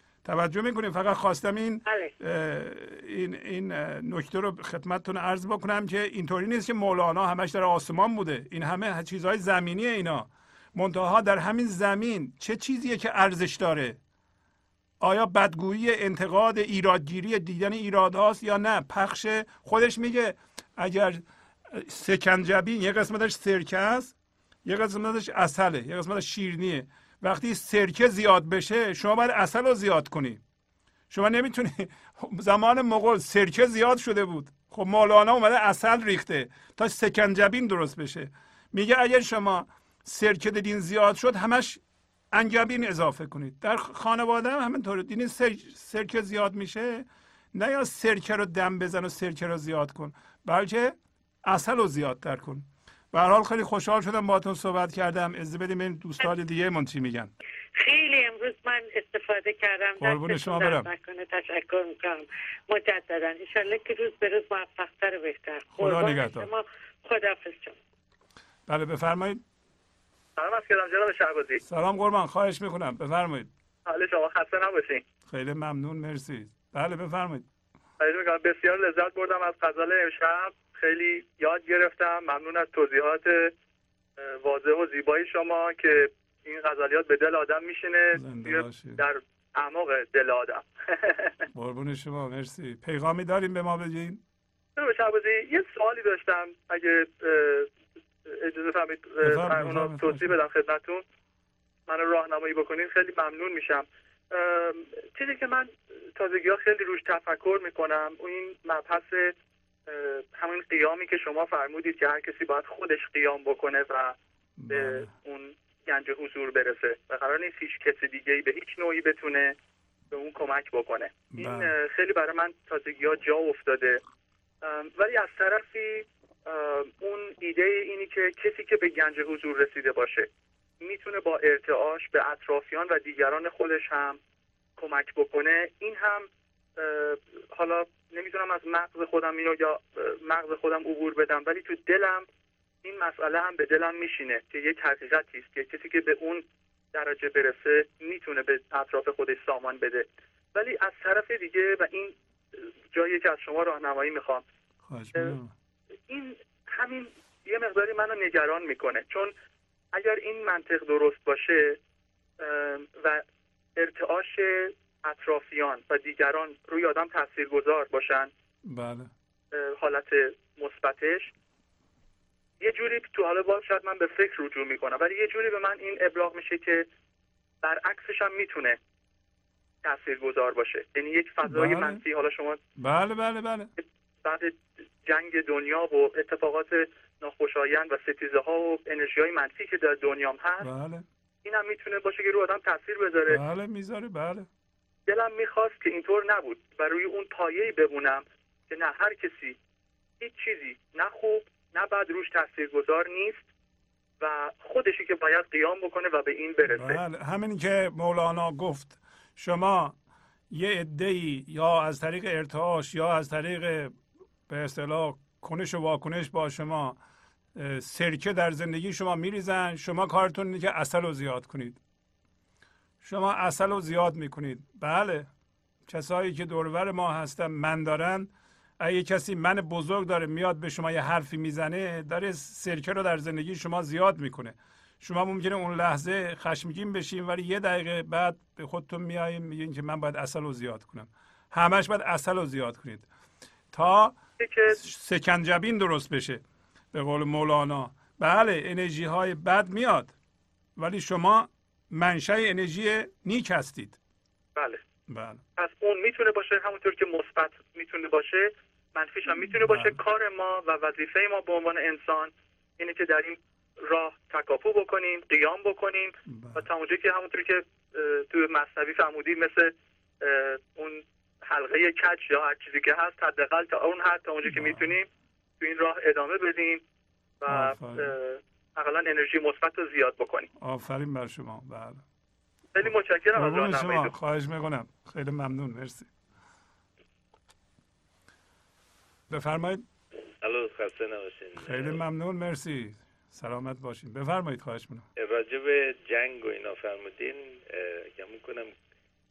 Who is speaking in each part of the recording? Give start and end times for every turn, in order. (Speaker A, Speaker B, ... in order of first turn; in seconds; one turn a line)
Speaker A: 0.2-14.0
Speaker B: 1.9-2.1
Speaker A: 15.0-30.4
Speaker A: 31.1-41.8
Speaker A: 42.3-57.3
Speaker B: 57.8-67.8
Speaker A: 60.0-60.9
Speaker A: 65.7-66.5
Speaker A: 68.7-69.4
Speaker C: 70.4-71.6
Speaker A: 71.7-73.5
Speaker C: 73.9-75.0
Speaker A: 75.3-77.5
Speaker C: 78.0-83.5
Speaker C: 84.2-91.3
Speaker A: 88.1-89.0
Speaker A: 91.5-94.2
Speaker C: 94.8-97.7
Speaker C: 98.3-101.0
Speaker A: 99.2-100.4
Speaker C: 101.9-109.3
Speaker C: 109.9-114.2
Speaker A: 114.6-115.1
Speaker C: 114.7-119.5
Speaker C: 120.1-124.0
Speaker A: 121.3-121.7
Speaker C: 124.6-130.3
Speaker C: 130.8-134.2
Speaker C: 134.8-142.3
Speaker C: 142.8-152.2
Speaker C: 152.9-154.4
Speaker A: 154.9-155.5
Speaker C: 156.1-159.3
Speaker C: 159.9-161.8
Speaker C: 162.4-163.2
Speaker C: 163.8-168.3
Speaker A: 168.7-169.1
Speaker C: 169.5-171.3
Speaker C: 172.6-176.9
Speaker C: 177.6-178.8
Speaker C: 179.8-182.6
Speaker A: 181.4-182.0
Speaker A: 182.8-183.7
Speaker C: 183.8-190.7
Speaker A: 190.6-191.1
Speaker C: 191.4-193.4
Speaker A: 193.3-194.5
Speaker C: 195.1-199.6
Speaker C: 200.2-203.4
Speaker C: 204.2-207.0
Speaker A: 206.7-210.0
Speaker A: 210.5-213.9
Speaker A: 214.5-217.0
Speaker A: 217.6-221.8
Speaker A: 223.0-225.3
Speaker A: 225.9-243.1
Speaker A: 243.7-244.2
Speaker C: 244.4-244.8
Speaker A: 244.7-250.2
Speaker A: 250.8-254.0
Speaker C: 254.6-254.8
Speaker A: 255.1-255.4
Speaker C: 255.6-275.1
Speaker A: 259.5-260.0
Speaker A: 266.3-266.7
Speaker A: 274.4-274.9
Speaker C: 275.6-276.8
Speaker C: 277.4-280.5
Speaker A: 277.5-278.1
Speaker A: 280.6-282.0
Speaker C: 282.8-284.1
Speaker A: 282.8-286.1
Speaker A: 289.3-289.8
Speaker D: 290.4-292.0
Speaker A: 291.6-295.1
Speaker D: 295.2-298.7